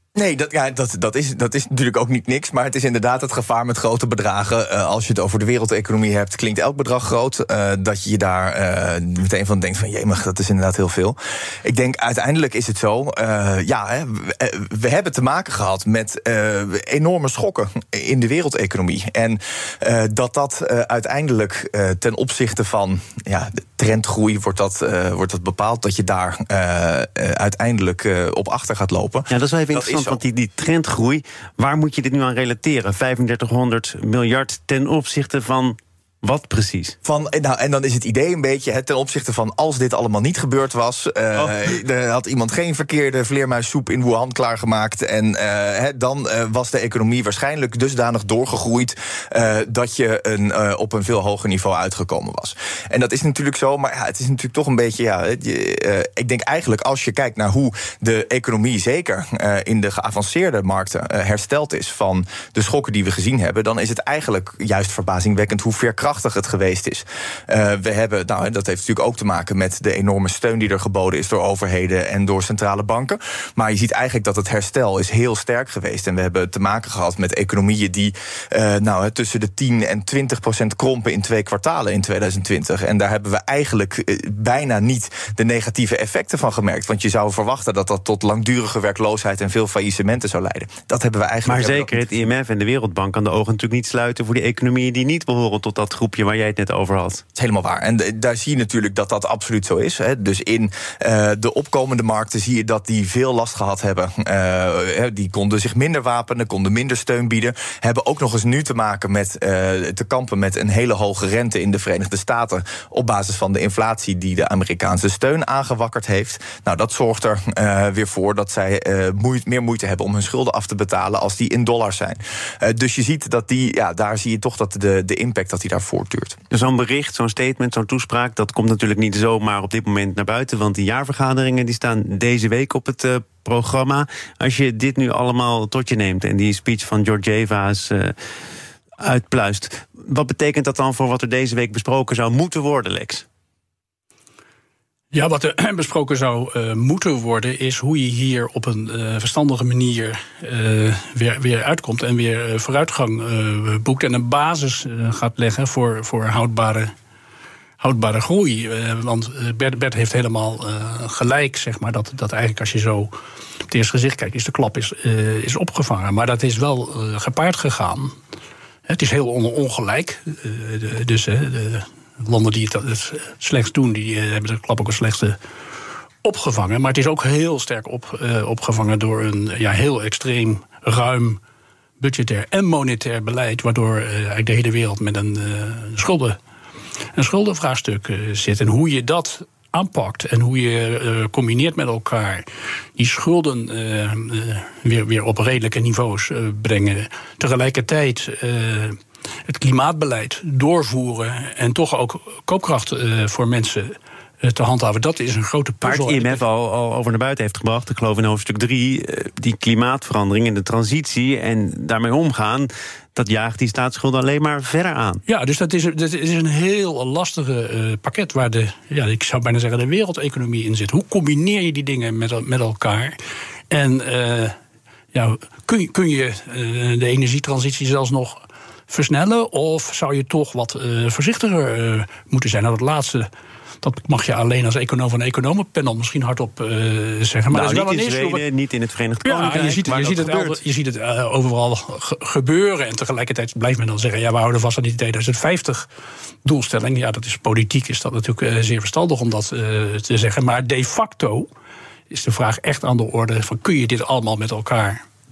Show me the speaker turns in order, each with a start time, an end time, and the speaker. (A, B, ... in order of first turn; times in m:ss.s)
0:00.2-0:30.2 A
0:29.3-0:37.0 B
0:37.0-1:32.1 A
1:31.5-1:37.2 B
1:37.4-2:06.4 A
2:06.5-2:18.2 B
2:19.0-2:23.2 B
2:25.1-2:36.9 C
2:37.8-2:43.2 C
2:43.7-2:48.2 C
2:48.9-2:55.4 C
2:56.2-3:01.4 C
3:02.0-3:06.4 C
3:07.1-3:26.4 C
3:25.8-3:35.2 B
3:35.3-3:43.2 C
3:43.7-3:44.6 C
3:45.1-3:53.3 C
3:53.8-3:58.4 C
3:57.5-4:00.6 B
3:59.2-4:05.9 C
4:06.4-4:11.5 C
4:12.1-4:15.0 C